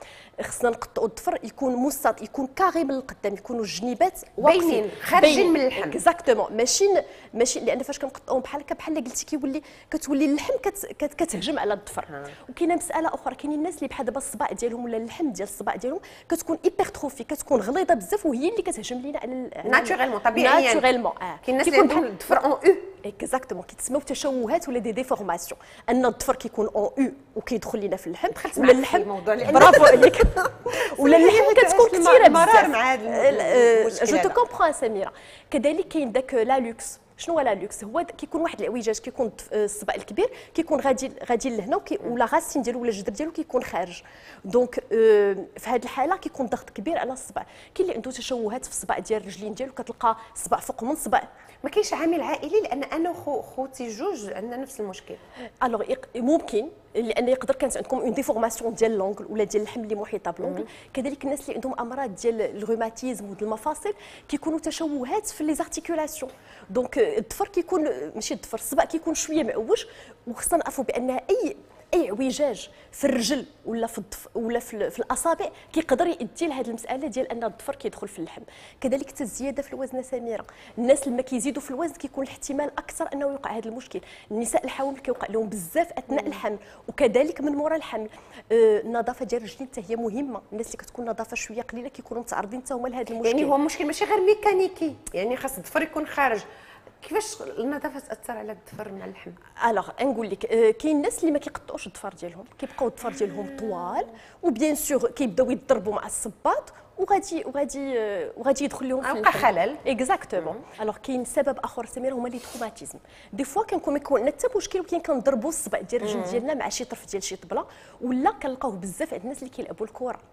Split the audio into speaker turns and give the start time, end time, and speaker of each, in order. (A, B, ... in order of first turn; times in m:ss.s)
0:00.4-0:22.1 A
0:04.4-0:06.0 B
0:19.6-0:20.8 B
0:21.4-0:22.9 B
0:23.0-0:51.3 A
0:28.3-0:34.4 B
0:51.6-0:55.2 B
0:55.6-1:33.5 A
1:26.1-1:26.4 B
1:33.2-1:36.4 B
1:37.0-1:39.4 B
1:39.6-2:00.2 A
1:49.0-1:49.8 B
1:56.0-1:56.4 B